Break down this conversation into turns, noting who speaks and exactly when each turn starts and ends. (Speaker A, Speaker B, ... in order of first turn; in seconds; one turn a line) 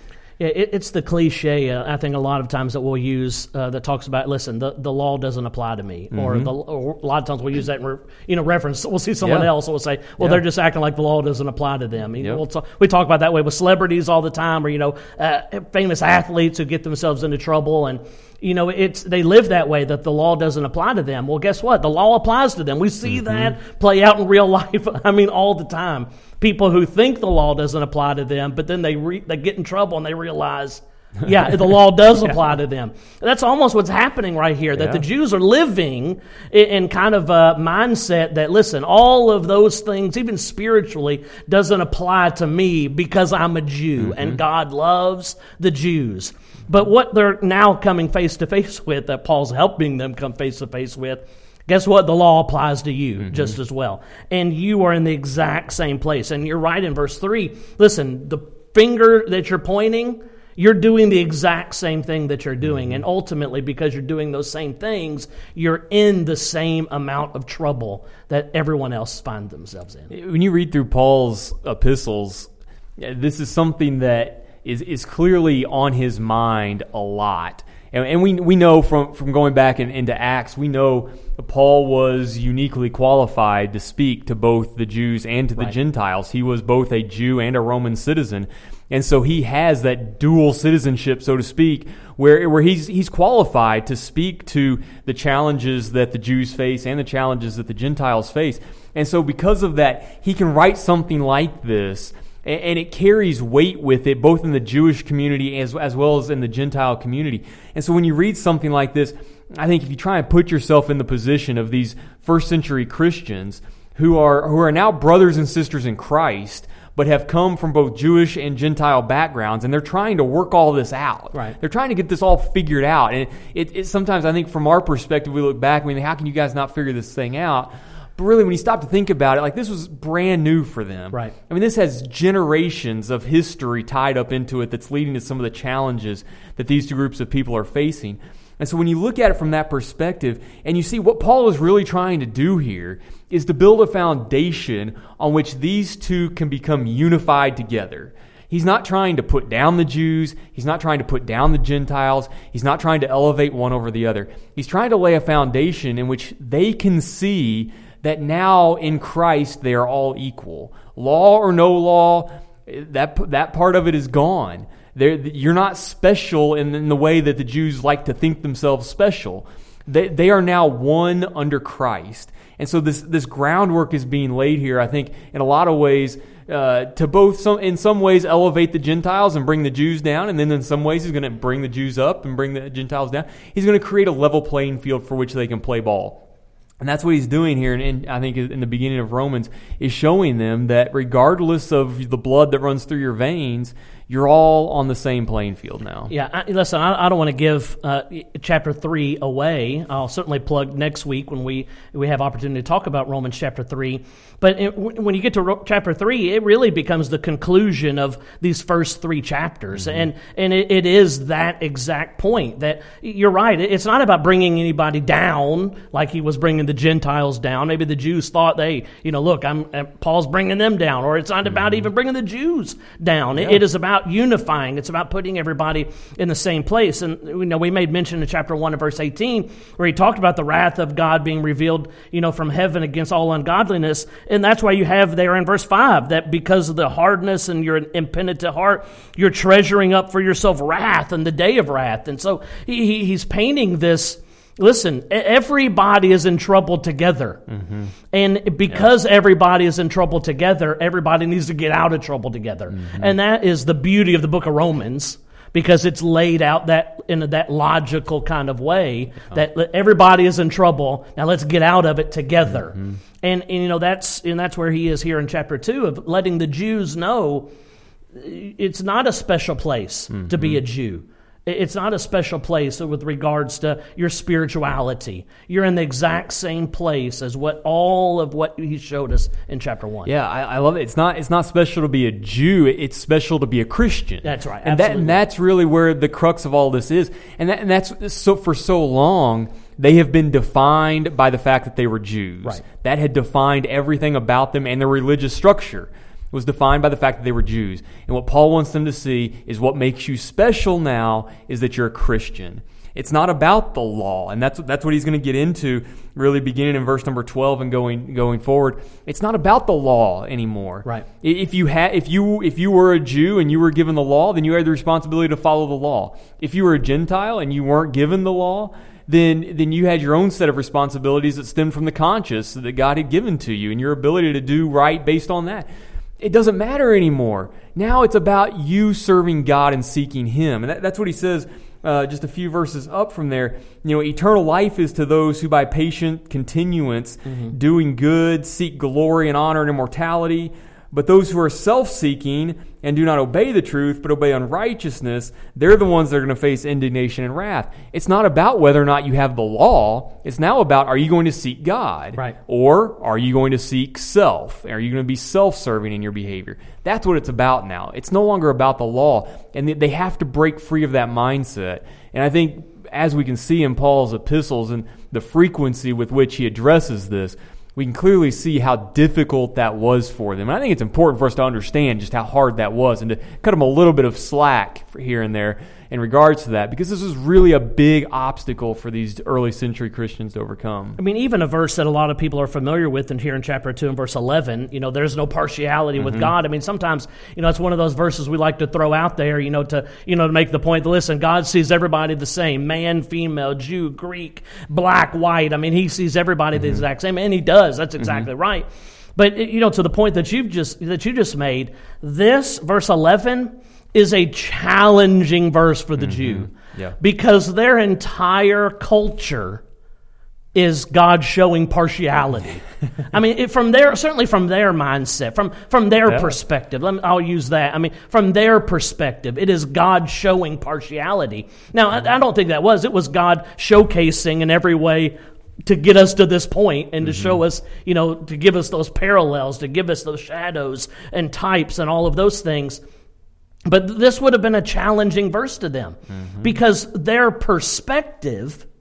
Speaker A: 0.4-70.1
Speaker B: 6.1-6.5
Speaker B: 9.2-9.5
Speaker B: 23.1-23.5
Speaker B: 34.8-35.0
Speaker B: 44.0-44.4
Speaker B: 70.1-186.2
Speaker B: 186.8-196.1
Speaker A: 196.1-247.4
Speaker B: 247.5-247.9
Speaker A: 248.1-267.5
Speaker B: 252.8-253.1
Speaker A: 268.1-280.1
Speaker B: 270.1-270.6
Speaker B: 280.1-325.7
Speaker A: 284.2-285.2
Speaker B: 326.2-381.0
Speaker A: 337.2-337.5
Speaker A: 381.0-409.6
Speaker B: 386.0-386.3
Speaker B: 406.0-407.0
Speaker A: 410.5-432.8
Speaker B: 427.0-427.4
Speaker A: 433.6-438.6
Speaker B: 436.1-436.5